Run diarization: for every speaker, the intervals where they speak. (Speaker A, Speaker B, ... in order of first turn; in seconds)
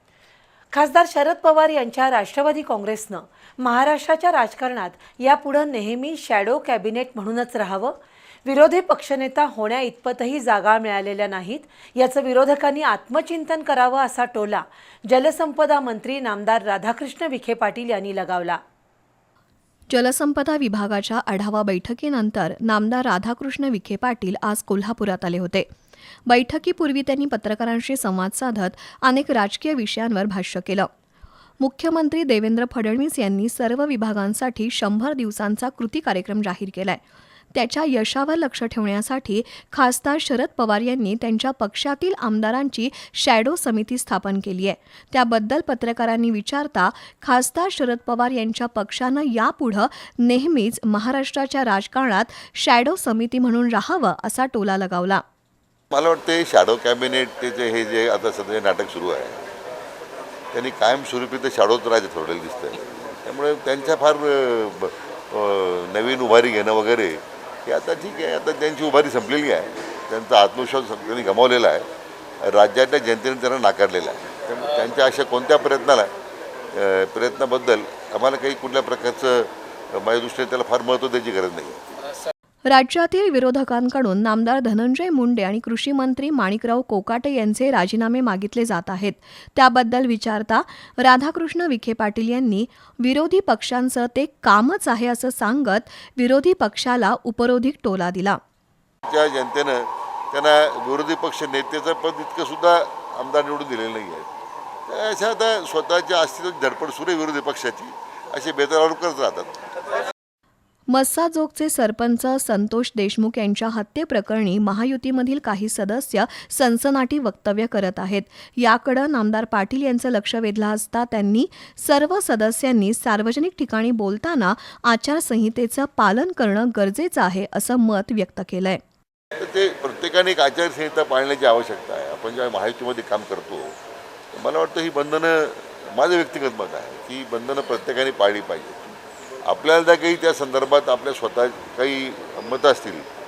Speaker A: 0.7-7.9, 8.4-18.6
Speaker B: 19.9-25.7, 26.3-30.9, 31.6-37.0, 37.5-55.2, 82.7-98.4, 110.9-128.8
Speaker C: 55.9-59.4, 60.5-71.9, 72.4-76.1, 76.7-81.8, 99.1-104.3, 104.9-109.6, 129.4-133.8, 134.3-143.1